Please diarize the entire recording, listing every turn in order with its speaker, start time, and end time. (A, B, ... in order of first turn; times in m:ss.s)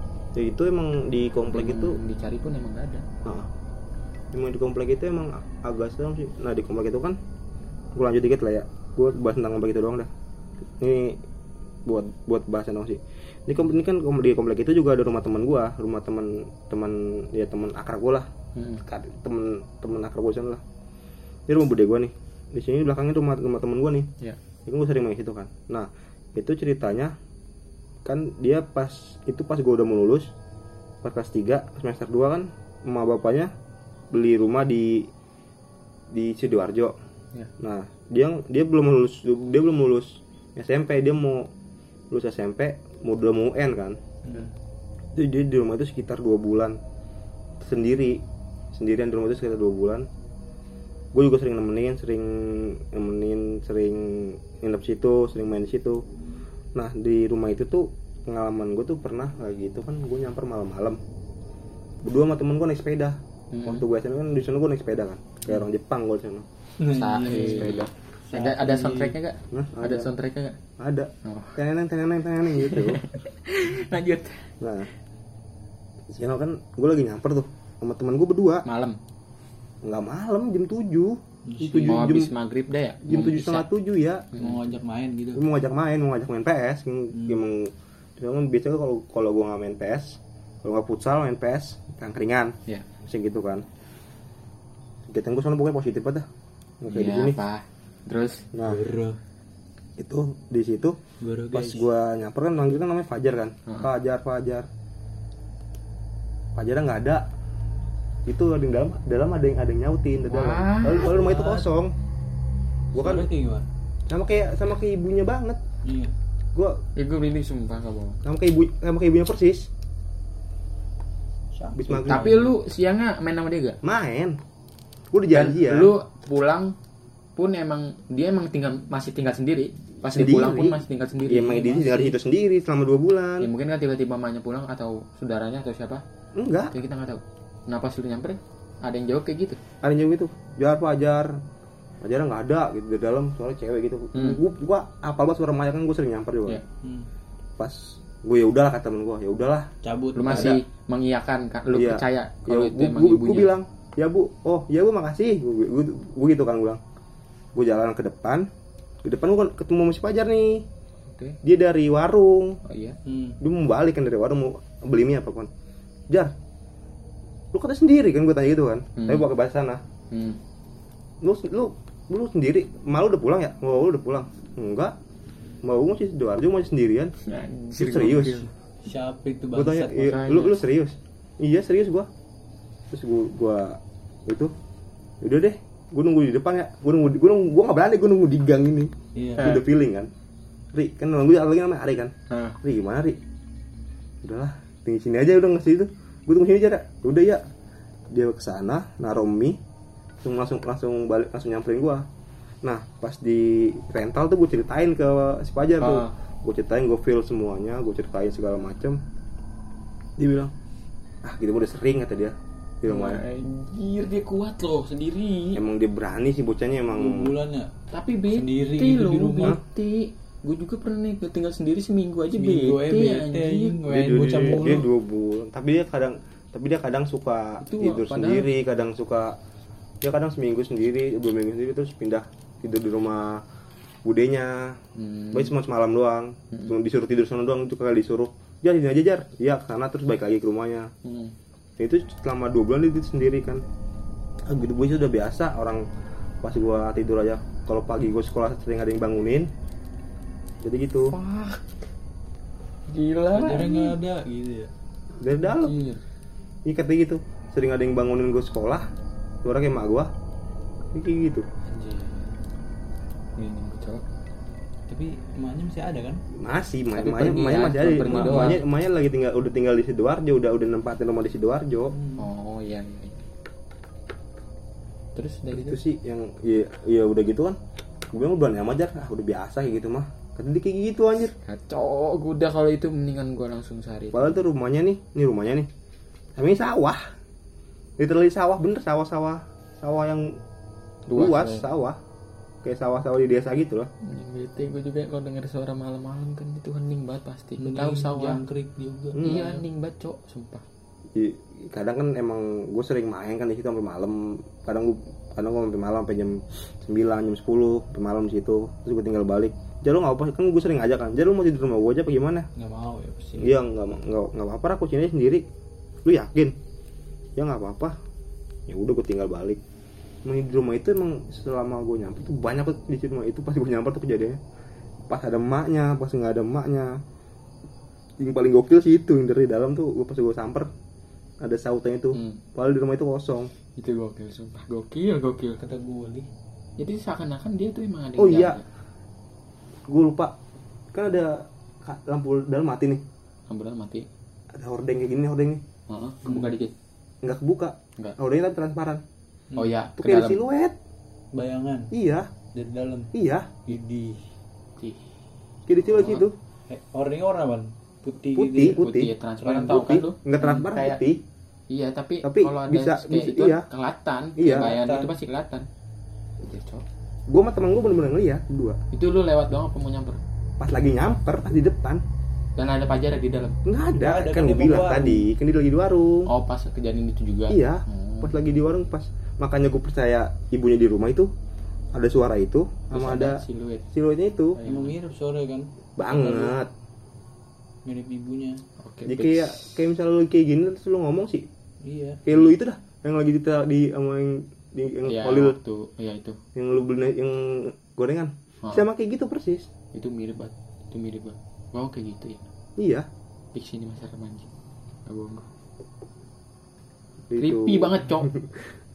0:00.3-0:02.0 A
0:01.5-0:03.0 B
0:04.3-0:07.2 A
0:07.9-0:10.1 A
0:10.8-0:11.2 A
0:11.9-0:18.3 A
0:18.6-0:18.8 B
0:18.8-0:20.6 A
0:21.5-0:24.1 A
0:24.7-0:27.2 A
0:28.0-0:30.3 A
0:31.0-0:33.5 A
0:34.1-0:35.1 A
0:36.1-0:37.0 A
0:37.6-0:41.5 A
0:42.1-0:44.0 A
0:45.1-0:46.8 A
0:47.6-0:50.1 A
0:51.1-0:56.0 A
0:56.8-1:01.0 A
1:02.0-1:06.5 A
1:03.5-1:03.8 B
1:06.8-1:09.2 C
1:06.9-1:10.6 B
1:09.5-1:10.1 A
1:10.8-1:13.0 A
1:11.2-1:11.6 B
1:12.5-1:14.5 B
1:14.6-1:14.9 A
1:16.1-1:18.6 A
1:18.6-1:19.0 B
1:19.8-1:22.3 A
1:21.5-1:22.0 C
1:21.8-1:23.7 B
1:23.1-1:24.3 A
1:24.4-1:25.4 C
1:25.4-1:33.6 A
1:27.2-1:27.4 C
1:35.1-1:36.3 A
1:36.8-1:37.4 A
1:36.9-1:38.5 B
1:38.5-1:38.8 A
1:38.6-1:39.2 C
1:40.0-1:41.0 A
1:41.2-1:41.8 C
1:41.5-1:44.7 A
1:46.6-1:47.3 A
1:48.3-1:52.0 A
1:50.3-1:51.1 B
1:50.9-1:51.7 C
1:52.9-1:53.7 C
1:53.0-1:53.3 A
1:54.1-1:55.6 A
1:55.8-1:56.1 C
1:56.5-1:56.8 A
1:57.0-1:58.2 B
1:58.2-1:59.7 A
2:01.6-2:02.5 C
2:01.8-2:02.3 A
2:02.1-2:03.8 B
2:03.8-2:04.4 A
2:05.1-2:05.9 A
2:05.3-2:06.8 B
2:07.4-2:12.2 B
2:10.0-2:13.5 A
2:13.4-2:16.0 B
2:16.4-2:16.7 A
2:16.7-2:19.6 B
2:19.8-2:21.4 A
2:22.0-2:26.6 A
2:24.1-2:24.4 B
2:26.8-2:27.1 C
2:27.6-2:29.7 A
2:29.8-2:30.6 C
2:30.2-2:33.5 B
2:30.3-2:30.6 A
2:31.7-2:36.8 A
2:37.6-2:38.5 A
2:39.0-2:40.7 A
2:41.1-2:41.4 B
2:41.4-2:42.6 A
2:42.6-2:43.0 B
2:43.1-2:43.4 C
2:43.4-2:45.5 A
2:47.5-2:49.8 A
2:49.0-2:49.3 B
2:50.1-2:50.4 B
2:51.2-2:55.0 A
2:55.6-2:57.2 A
2:57.2-2:58.5 B
2:57.8-2:58.5 A
2:58.8-3:00.2 C
2:59.5-3:02.1 A
3:00.0-3:00.6 B
3:02.9-3:04.5 A
3:05.2-3:10.1 A
3:09.2-3:09.6 C
3:10.7-3:13.2 A
3:12.3-3:12.6 B
3:14.2-3:17.4 A
3:18.1-3:19.6 A
3:20.2-3:22.1 A
3:22.6-3:29.0 A
3:25.8-3:26.1 B
3:30.2-3:30.5 A
3:31.2-3:33.2 A
3:32.9-3:35.6 B
3:35.6-3:37.4 A
3:36.9-3:37.7 C
3:37.9-3:44.4 B
3:38.3-3:39.6 C
3:42.4-3:44.9 C
3:43.9-3:49.4 A
3:47.6-3:48.5 B
3:50.0-3:53.4 A
3:54.0-3:54.8 A
3:55.0-3:55.6 B
3:55.3-4:00.9 A
4:01.0-4:01.4 B
4:01.8-4:03.6 A
4:04.4-4:05.8 A
4:06.4-4:09.5 A
4:10.6-4:11.2 A
4:11.1-4:11.6 B
4:12.9-4:14.0 B
4:13.4-4:14.7 C
4:15.2-4:15.8 A
4:15.5-4:16.0 B
4:16.6-4:18.9 A
4:19.4-4:20.1 A
4:20.9-4:21.5 A
4:21.7-4:22.3 B
4:23.4-4:24.0 B
4:24.9-4:26.2 C
4:26.3-4:32.0 A
4:27.0-4:28.6 B
4:28.0-4:28.6 C
4:31.9-4:32.3 C
4:32.2-4:33.2 B
4:35.2-4:35.8 B
4:35.5-4:37.6 A
4:38.1-4:41.3 A
4:41.4-4:44.4 B
4:44.1-4:45.7 A
4:46.4-4:47.1 A
4:48.0-4:50.4 A
4:51.1-4:51.7 B
4:51.2-4:52.0 A
4:52.6-4:53.9 A
4:54.0-4:58.4 B
4:57.6-4:59.6 C
4:59.2-4:59.6 A
4:59.2-5:00.6 B
5:01.2-5:12.5 A
5:12.6-5:13.6 C
5:13.4-5:15.5 A
5:16.0-5:16.6 A
5:17.4-5:18.0 A
5:18.7-5:19.6 A
5:20.2-5:24.4 A
5:25.1-5:27.0 A
5:28.2-5:30.7 A
5:31.4-5:33.5 A
5:32.1-5:32.4 B
5:33.7-5:35.6 B
5:35.6-5:36.3 C
5:36.8-5:38.6 B
5:38.2-5:38.6 A
5:39.9-5:40.4 A
5:40.9-5:43.0 A
5:43.5-5:44.1 B
5:44.5-5:45.6 A
5:45.9-5:46.7 B
5:46.3-5:46.6 C
5:47.2-5:49.0 A
5:49.6-5:50.4 B
5:50.0-5:50.8 A
5:51.3-5:51.9 C
5:51.9-5:52.3 A
5:52.5-5:53.1 C
5:53.1-5:53.7 A
5:53.7-5:54.2 C
5:54.8-5:55.1 B
5:55.7-5:56.4 A
5:55.8-5:56.3 B
5:56.7-5:58.8 C
5:58.4-5:59.1 A
5:58.7-6:01.0 B
5:59.4-5:59.8 C
5:59.7-6:01.2 A
6:01.7-6:05.7 B
6:02.2-6:03.7 A
6:04.4-6:04.8 A
6:04.5-6:05.1 C
6:06.4-6:06.8 B
6:07.3-6:08.8 A
6:08.9-6:10.2 B
6:10.6-6:12.0 A
6:12.6-6:13.6 B
6:13.6-6:16.3 A
6:14.0-6:15.3 C
6:16.3-6:18.4 B
6:17.5-6:21.3 A
6:21.9-6:24.6 A
6:22.9-6:23.8 B
6:24.5-6:25.0 B
6:24.6-6:26.6 C
6:26.0-6:26.7 A
6:27.8-6:28.6 C
6:28.8-6:29.8 B
6:29.1-6:31.5 A
6:31.8-6:32.2 C
6:32.3-6:35.6 A
6:35.1-6:36.4 B
6:36.6-6:39.7 A
6:39.9-6:42.4 B
6:42.8-6:43.1 A
6:43.5-6:44.5 B
6:45.1-6:45.5 B
6:47.3-6:48.6 A
6:47.4-6:48.3 B